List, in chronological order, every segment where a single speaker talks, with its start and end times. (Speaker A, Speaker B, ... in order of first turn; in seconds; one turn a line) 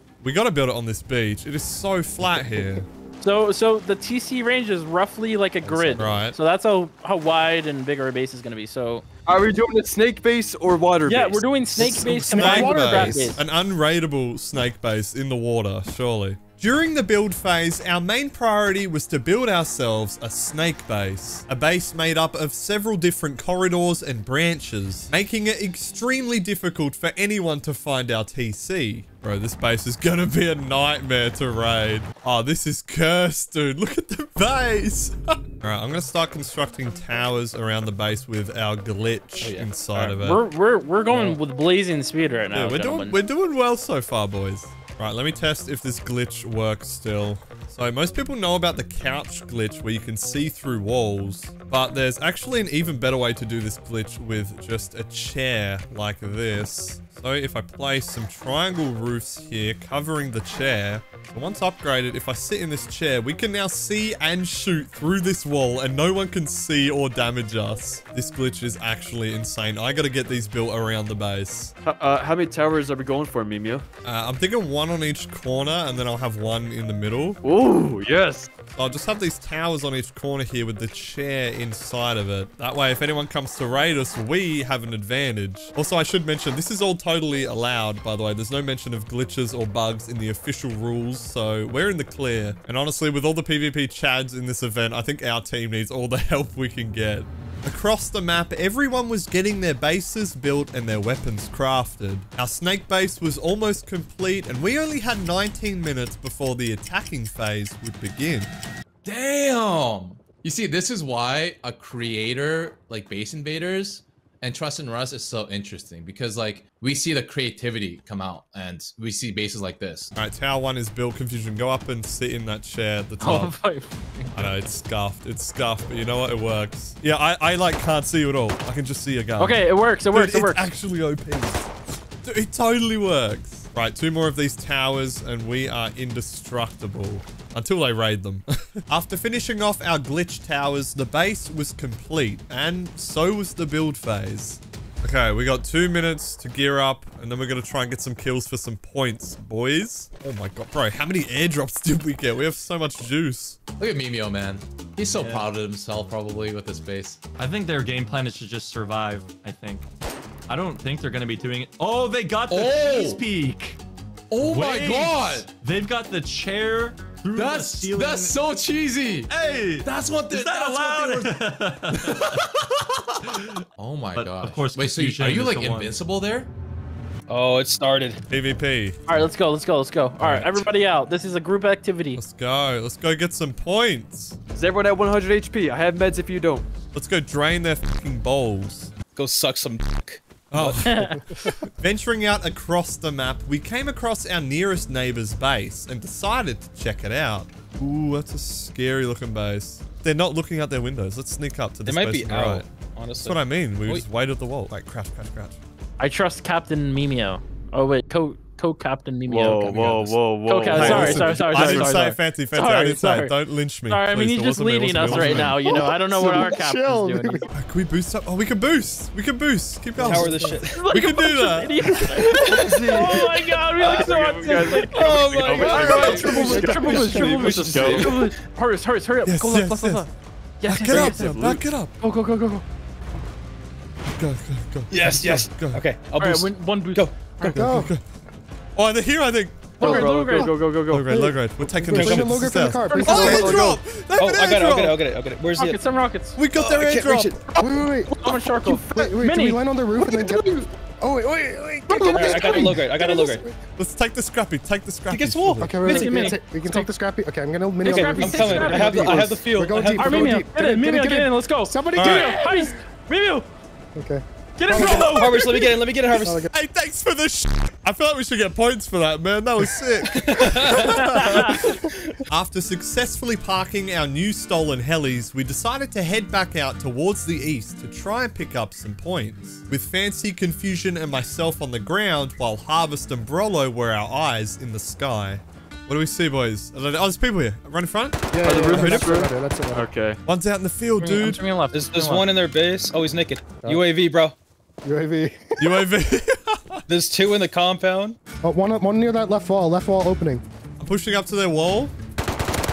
Speaker A: 0.2-2.9
Speaker B: 3.2-9.1
Speaker C: 5.6-6.2
Speaker A: 6.0-6.4
Speaker C: 9.2-12.0
Speaker B: 11.1-13.4
Speaker A: 11.8-40.4
Speaker D: 12.3-13.3
Speaker E: 39.4-40.1
Speaker B: 40.1-43.2
Speaker A: 42.5-71.7
Speaker C: 71.8-73.8
Speaker A: 74.0-77.4
Speaker C: 77.4-78.5
Speaker A: 78.7-108.5
Speaker F: 109.0-120.1
Speaker A: 120.1-123.5
Speaker B: 123.2-124.5
Speaker A: 124.3-131.7
Speaker B: 129.4-130.7
Speaker A: 132.2-153.6
Speaker F: 153.8-157.2
Speaker G: 155.1-155.5
Speaker G: 157.4-159.8
Speaker G: 160.5-163.8
Speaker F: 162.5-163.2
Speaker F: 164.3-165.5
Speaker G: 164.4-168.4
Speaker F: 167.3-169.3
Speaker G: 169.2-172.4
Speaker F: 169.8-171.4
Speaker F: 171.9-172.6
Speaker F: 173.8-176.5
Speaker G: 174.1-176.0
Speaker E: 177.3-178.2
Speaker A: 178.3-179.0
Speaker B: 179.1-182.2
Speaker A: 180.2-180.7
Speaker A: 182.2-184.4
Speaker C: 184.5-186.7
Speaker A: 186.9-188.9
Speaker E: 189.2-190.8
Speaker A: 190.5-202.7
Speaker B: 190.8-191.3
Speaker E: 201.8-204.0
Speaker A: 203.2-205.6
Speaker B: 206.0-217.5
Speaker C: 209.2-212.0
Speaker A: 210.7-215.6
Speaker D: 215.4-217.5
Speaker A: 217.5-222.4
Speaker D: 220.0-220.6
Speaker E: 220.0-220.8
Speaker B: 220.7-230.1
Speaker E: 222.3-226.6
Speaker C: 222.3-228.3
Speaker A: 225.6-226.6
Speaker D: 225.8-227.5
Speaker G: 227.7-228.1
Speaker A: 229.2-230.1
Speaker B: 230.6-231.5
Speaker A: 230.6-231.9
Speaker C: 230.7-231.6
Speaker B: 232.0-232.6
Speaker A: 234.1-235.8
Speaker E: 234.9-237.1
Speaker B: 236.2-237.6
Speaker D: 237.5-237.9
Speaker A: 237.5-238.0
Speaker A: 238.8-239.8
Speaker B: 239.8-240.6
Speaker C: 239.8-242.0
Speaker D: 239.8-240.5
Speaker A: 240.9-245.0
Speaker D: 241.1-243.8
Speaker E: 241.9-242.3
Speaker B: 242.8-243.6
Speaker C: 243.1-243.6
Speaker E: 244.2-245.8
Speaker B: 245.6-246.4
Speaker A: 246.3-247.4
Speaker E: 246.6-246.8
Speaker C: 246.7-247.7
Speaker D: 247.6-253.6
Speaker B: 248.1-249.6
Speaker C: 250.0-250.6
Speaker C: 251.9-252.8
Speaker E: 252.1-253.4
Speaker A: 253.8-255.8
Speaker E: 255.1-256.4
Speaker D: 255.6-262.8
Speaker B: 255.8-256.9
Speaker E: 257.8-260.4
Speaker B: 257.8-259.3
Speaker B: 259.9-263.5
Speaker A: 261.9-262.4
Speaker D: 263.9-266.5
Speaker B: 264.6-265.6
Speaker E: 264.7-266.4
Speaker A: 266.5-289.1
Speaker E: 270.1-271.0
Speaker B: 270.9-271.6
Speaker D: 288.3-289.9
Speaker C: 288.4-290.2
Speaker A: 290.2-291.4
Speaker B: 291.0-292.2
Speaker E: 291.7-294.3
Speaker D: 294.8-295.9
Speaker A: 295.6-296.8
Speaker E: 296.9-298.2
Speaker D: 298.4-300.4
Speaker A: 300.8-301.9